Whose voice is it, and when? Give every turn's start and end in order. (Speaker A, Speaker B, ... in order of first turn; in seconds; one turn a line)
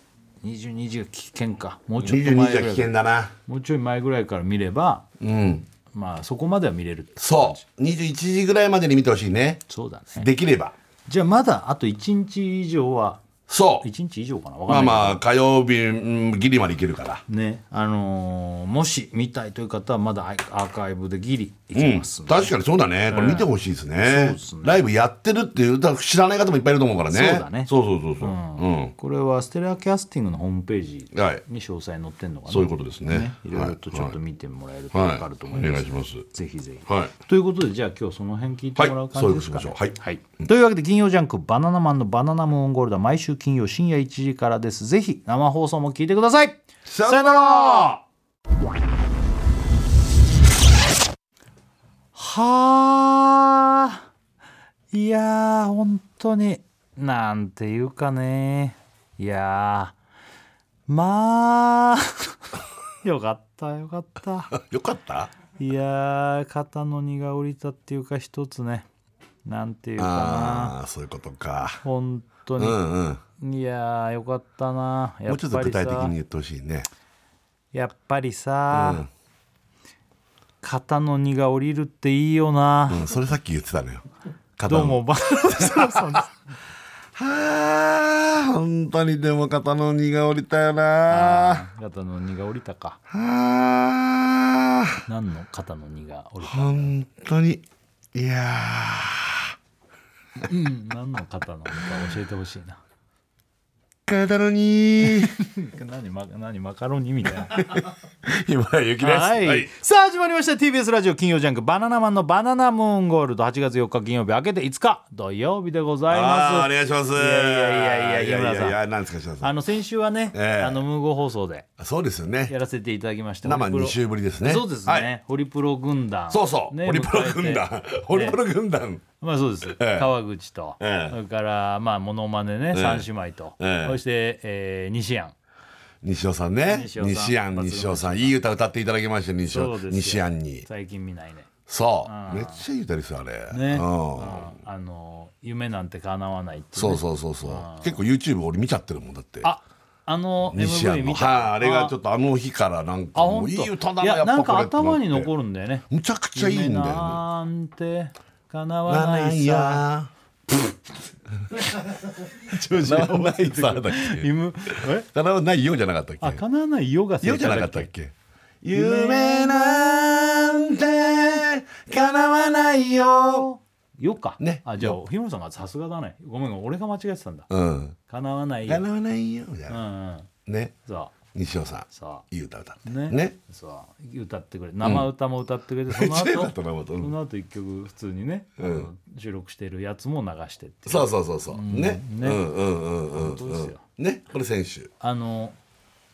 Speaker A: 0.4-2.9
Speaker B: 2.0-3.3
Speaker A: 3.5-5.0
Speaker B: 5.2-5.7
Speaker A: 5.9-7.6
Speaker B: 7.2-9.6
Speaker A: 9.7-10.3
Speaker B: 10.1-10.7
Speaker A: 11.1-13.2
Speaker B: 13.5-13.9
Speaker A: 13.8-15.2
Speaker B: 14.7-17.2
Speaker A: 17.3-22.6
Speaker B: 21.7-28.9
Speaker A: 23.1-23.5
Speaker A: 24.0-24.8
Speaker A: 27.1-48.0
Speaker B: 31.1-31.4
Speaker B: 32.5-34.1
Speaker B: 34.9-36.3
Speaker B: 38.8-40.5
Speaker B: 46.9-48.0
Speaker A: 52.1-54.0
Speaker A: 54.9-59.9
Speaker A: 60.9-62.4
Speaker A: 63.0-64.5
Speaker B: 64.5-65.3
Speaker A: 65.6-68.8
Speaker A: 69.4-70.8
Speaker B: 70.0-71.8
Speaker A: 71.8-72.8
Speaker B: 72.6-73.2
Speaker A: 73.4-76.1
Speaker B: 75.3-76.9
Speaker A: 77.7-79.0
Speaker B: 78.7-79.1
Speaker A: 80.6-83.1
Speaker B: 82.9-84.0
Speaker B: 84.6-86.2
Speaker A: 84.7-86.3
Speaker B: 87.1-91.6
Speaker A: 91.1-93.0
Speaker B: 93.1-95.0
Speaker A: 95.0-96.9
Speaker B: 96.4-99.5
Speaker A: 100.5-102.8
Speaker B: 104.1-105.3
Speaker A: 105.0-107.8
Speaker B: 107.4-109.7
Speaker A: 109.0-118.8
Speaker B: 116.1-119.5
Speaker A: 119.4-121.7
Speaker B: 120.3-120.8
Speaker B: 121.8-122.5
Speaker A: 122.5-128.4
Speaker B: 123.4-125.1
Speaker B: 126.3-129.0
Speaker A: 129.2-135.3
Speaker B: 129.6-130.1
Speaker B: 130.8-131.2
Speaker B: 132.7-133.1
Speaker B: 133.6-134.0
Speaker B: 136.0-140.7
Speaker A: 136.7-138.4
Speaker A: 139.5-141.5
Speaker B: 141.7-144.5
Speaker A: 142.0-142.6
Speaker A: 143.5-148.0
Speaker B: 146.7-149.5
Speaker A: 149.4-151.9
Speaker B: 150.4-155.3
Speaker A: 153.1-159.8
Speaker B: 155.9-157.2
Speaker B: 158.9-160.7
Speaker B: 161.5-166.4
Speaker A: 161.9-165.1
Speaker A: 166.2-167.9
Speaker B: 167.2-173.5
Speaker A: 168.7-170.0
Speaker A: 173.3-177.5
Speaker B: 174.4-175.0
Speaker B: 177.5-177.9
Speaker A: 178.1-178.8
Speaker B: 178.7-179.8
Speaker A: 179.7-180.3
Speaker B: 180.4-180.7
Speaker A: 180.8-181.1
Speaker B: 181.3-183.3
Speaker A: 181.9-182.2
Speaker A: 182.8-192.4
Speaker B: 184.8-185.1
Speaker B: 185.9-187.1
Speaker B: 188.6-188.9
Speaker B: 190.8-194.9
Speaker A: 193.1-193.8
Speaker A: 195.0-195.6